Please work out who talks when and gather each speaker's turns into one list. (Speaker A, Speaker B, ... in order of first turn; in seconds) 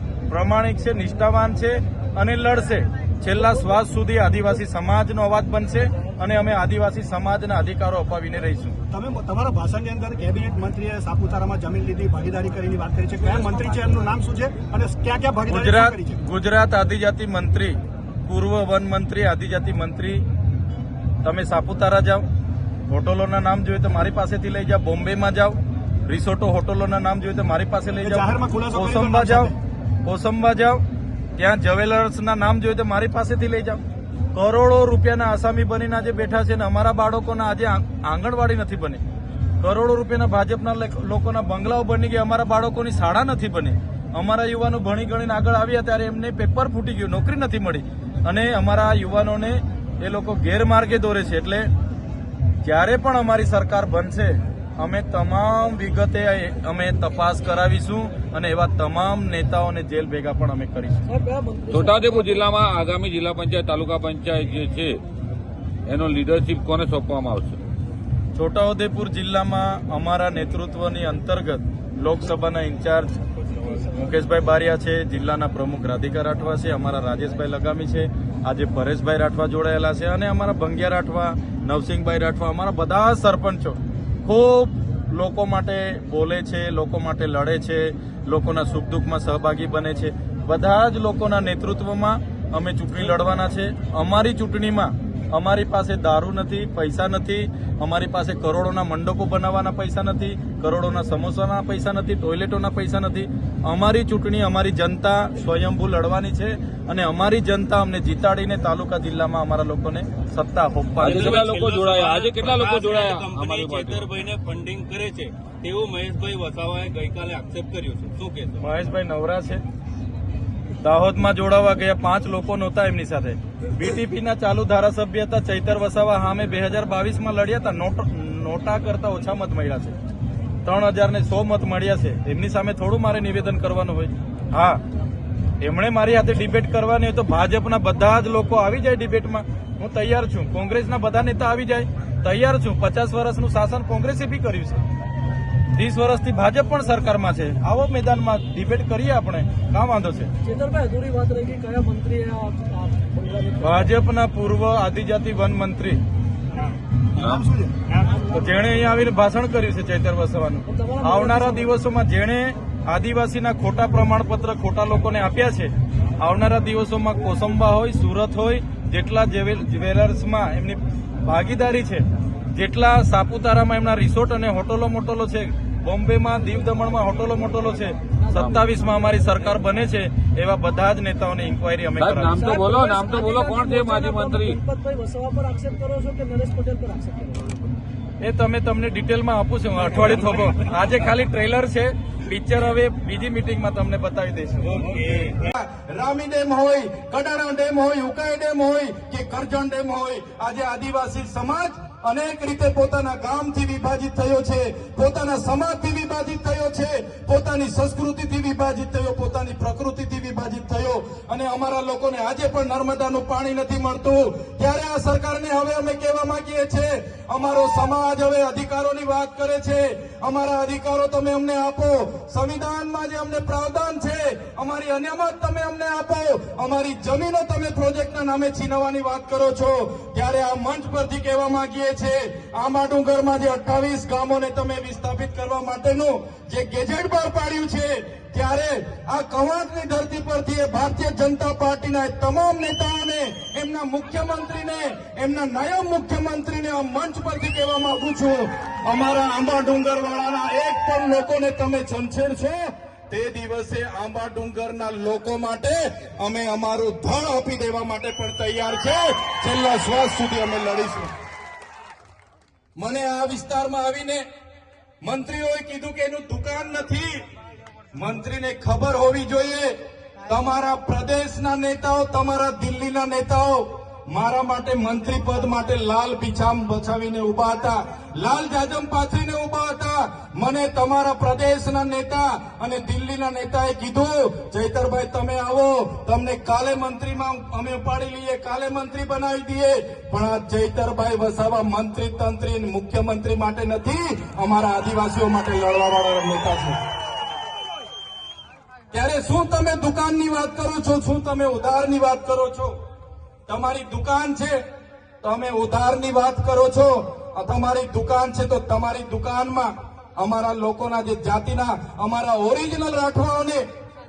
Speaker A: 0.3-8.8, 15.5-17.8, 18.3-20.2, 21.2-22.2, 22.9-29.5, 30.0-30.8, 31.4-33.8, 34.3-39.0, 39.6-51.7, 52.6-61.0, 68.3-73.1, 73.7-111.6, 118.6-119.6, 120.8-129.9, 130.6-134.8, 135.6-144.8, 145.7-150.3, 153.6-156.0, 158.3-172.0, 172.5-182.5, 188.2-194.8
Speaker B: 8.9-16.2, 28.0-29.6, 157.2-158.2
Speaker C: 61.1-62.4, 150.5-153.5, 160.8-161.6, 182.4-187.4
Speaker D: 61.7-65.0, 65.9-67.6, 111.0-114.1, 157.2-157.4, 182.0-184.6
Speaker E: 111.0-118.6, 194.7-195.5
Speaker F: 195.6-261.1, 262.8-264.2, 265.0-267.1, 267.9-269.7, 270.3-296.8, 298.9-302.7, 303.5-304.5, 305.2-313.6